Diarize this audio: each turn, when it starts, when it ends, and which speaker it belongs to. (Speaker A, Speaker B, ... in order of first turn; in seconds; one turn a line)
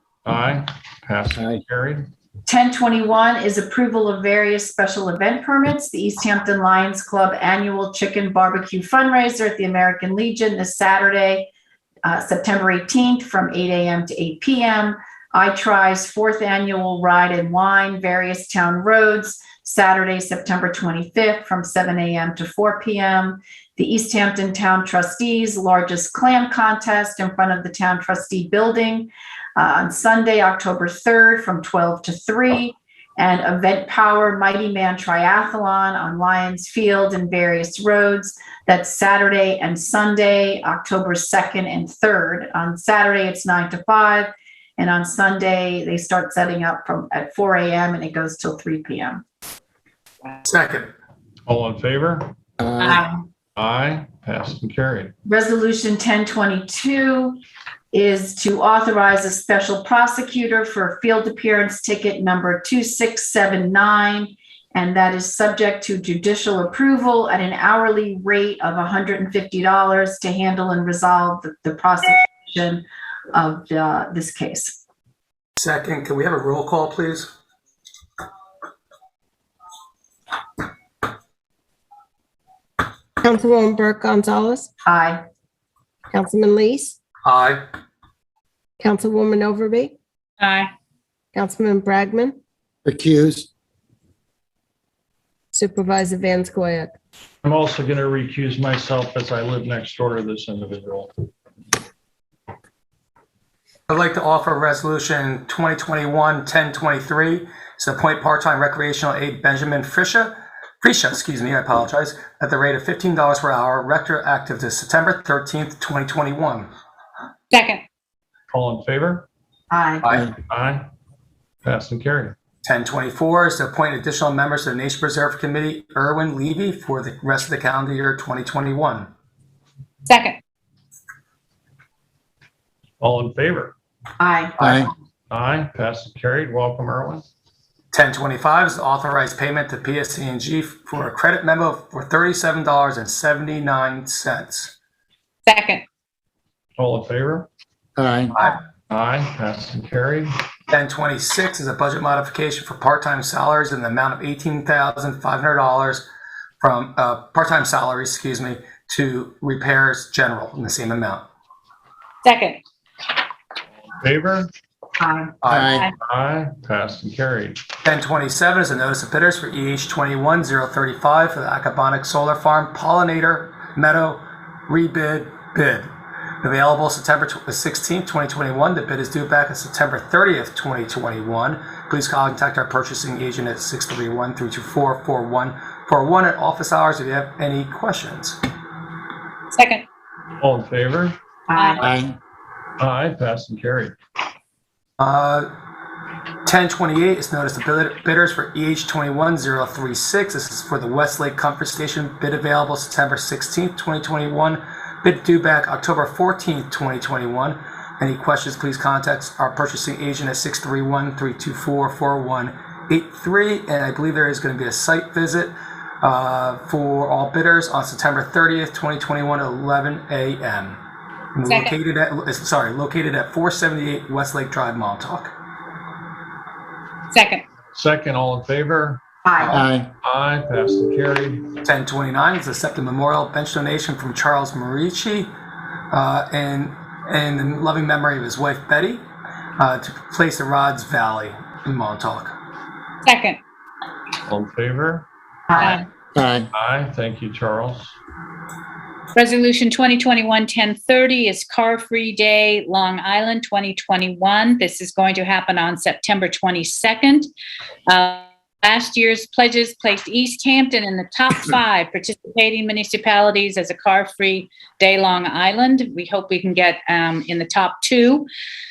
Speaker A: 0.2-2.0
Speaker B: 1.4-1.6
Speaker C: 2.5-11.5
Speaker C: 12.0-49.2
Speaker D: 50.4-50.9
Speaker A: 51.5-52.3
Speaker B: 52.6-53.0
Speaker E: 52.8-53.1
Speaker A: 53.6-55.1
Speaker C: 55.3-57.4
Speaker C: 57.9-74.8
Speaker D: 75.6-77.3
Speaker F: 83.2-84.7
Speaker C: 84.8-85.2
Speaker F: 86.1-87.0
Speaker D: 87.2-87.6
Speaker F: 88.8-90.0
Speaker E: 90.4-90.7
Speaker F: 91.3-92.4
Speaker B: 92.8-93.5
Speaker F: 95.5-97.0
Speaker A: 97.4-101.1
Speaker D: 103.9-116.7
Speaker E: 117.5-117.8
Speaker A: 118.5-119.3
Speaker C: 119.7-120.1
Speaker A: 120.5-120.8
Speaker A: 121.7-122.3
Speaker D: 122.6-129.1
Speaker E: 130.1-130.4
Speaker A: 133.0-133.7
Speaker C: 134.2-134.8
Speaker B: 134.6-134.9
Speaker A: 135.3-137.2
Speaker D: 137.9-144.7
Speaker E: 145.5-145.8
Speaker A: 146.8-147.5
Speaker B: 148.0-148.3
Speaker A: 148.9-150.3
Speaker D: 150.7-156.1
Speaker D: 156.6-161.3
Speaker E: 162.2-162.6
Speaker A: 163.9-164.5
Speaker C: 165.0-165.3
Speaker D: 165.4-165.7
Speaker B: 165.5-165.9
Speaker A: 166.0-167.6
Speaker D: 167.8-175.9
Speaker D: 176.4-188.4
Speaker E: 189.5-189.8
Speaker A: 190.4-191.2
Speaker C: 191.5-191.8
Speaker E: 191.6-191.8
Speaker B: 191.8-192.2
Speaker A: 192.8-193.9
Speaker D: 195.0-195.5
Speaker D: 196.5-220.8
Speaker D: 221.3-225.3
Speaker E: 221.5-221.7
Speaker E: 227.1-227.4
Speaker A: 227.7-229.0
Speaker C: 229.2-229.6
Speaker B: 229.5-229.9
Speaker A: 230.0-231.5
Speaker D: 231.6-235.3
Speaker D: 235.9-239.1
Speaker D: 239.6-242.3
Speaker E: 243.0-243.4
Speaker A: 244.3-245.1
Speaker C: 245.5-245.8
Speaker B: 246.2-246.5
Speaker A: 246.5-248.0
Speaker E: 249.2-257.3
Speaker E: 257.9-268.3